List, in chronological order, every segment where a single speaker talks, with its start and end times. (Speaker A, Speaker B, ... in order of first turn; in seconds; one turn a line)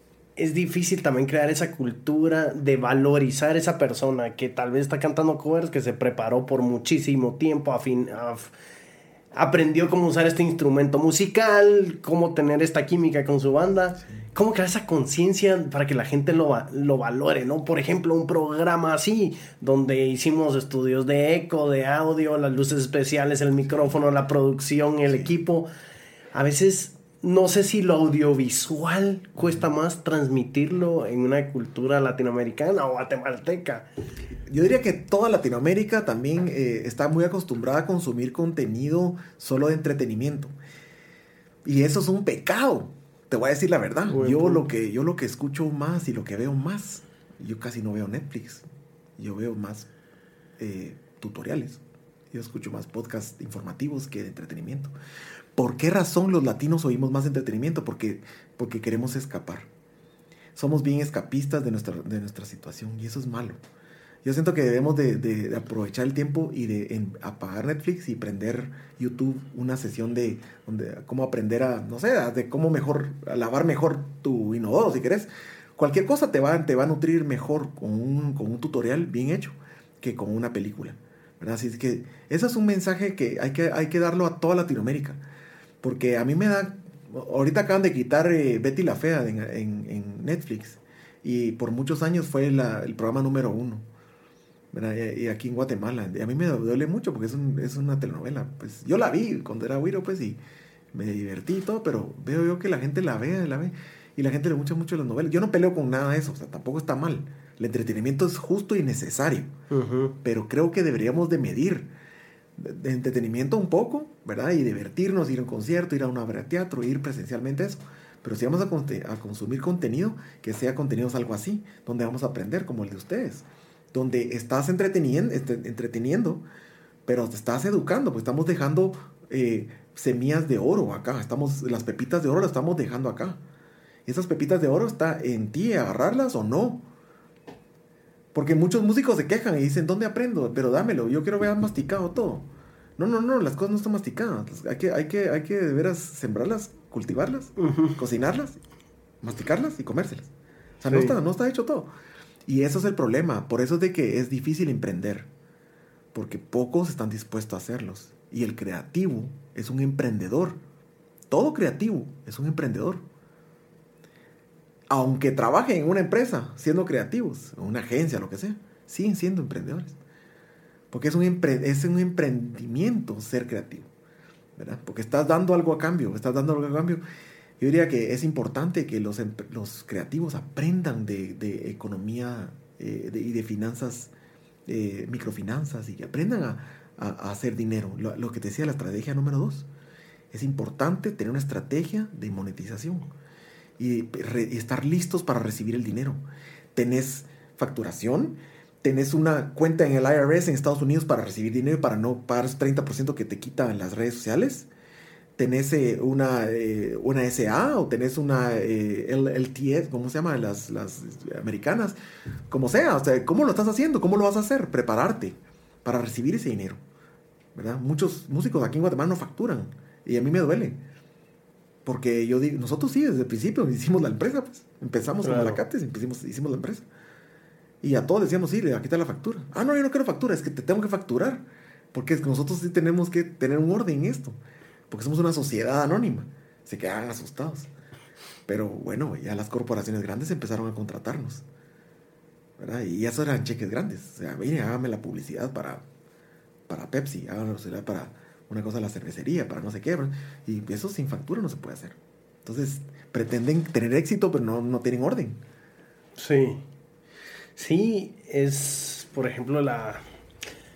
Speaker A: 0.4-8.5
Speaker A: 9.3-25.7
Speaker A: 26.3-33.9
Speaker B: 34.5-40.5
Speaker B: 41.6-48.6
Speaker A: 44.1-44.7
Speaker B: 49.2-49.9
Speaker B: 50.6-54.9
Speaker B: 55.6-59.7
Speaker B: 60.5-63.6
Speaker B: 64.2-85.2
Speaker B: 85.8-93.8
Speaker B: 94.7-100.4
Speaker B: 100.9-109.5
Speaker A: 109.7-110.1
Speaker B: 110.2-111.9
Speaker B: 112.6-126.4
Speaker B: 127.0-133.4
Speaker B: 134.1-136.8
Speaker B: 138.3-148.6
Speaker A: 147.6-148.0
Speaker B: 149.2-151.9
Speaker A: 150.9-151.1
Speaker B: 152.5-155.3
Speaker B: 156.1-160.6
Speaker B: 161.3-163.0
Speaker B: 164.9-169.9
Speaker B: 170.9-173.9
Speaker B: 174.6-177.0
Speaker B: 177.6-184.1
Speaker B: 184.7-189.7
Speaker B: 190.3-193.1
Speaker B: 193.8-196.2
Speaker B: 196.7-204.7
Speaker B: 205.4-211.9
Speaker B: 212.5-216.8
Speaker B: 217.5-220.8
Speaker B: 221.8-226.8
Speaker A: 225.2-225.6
Speaker B: 227.8-234.4
Speaker B: 234.9-237.7
Speaker B: 238.5-241.4
Speaker B: 242.6-245.8
Speaker B: 246.7-255.4
Speaker A: 256.2-256.6
Speaker A: 257.6-260.0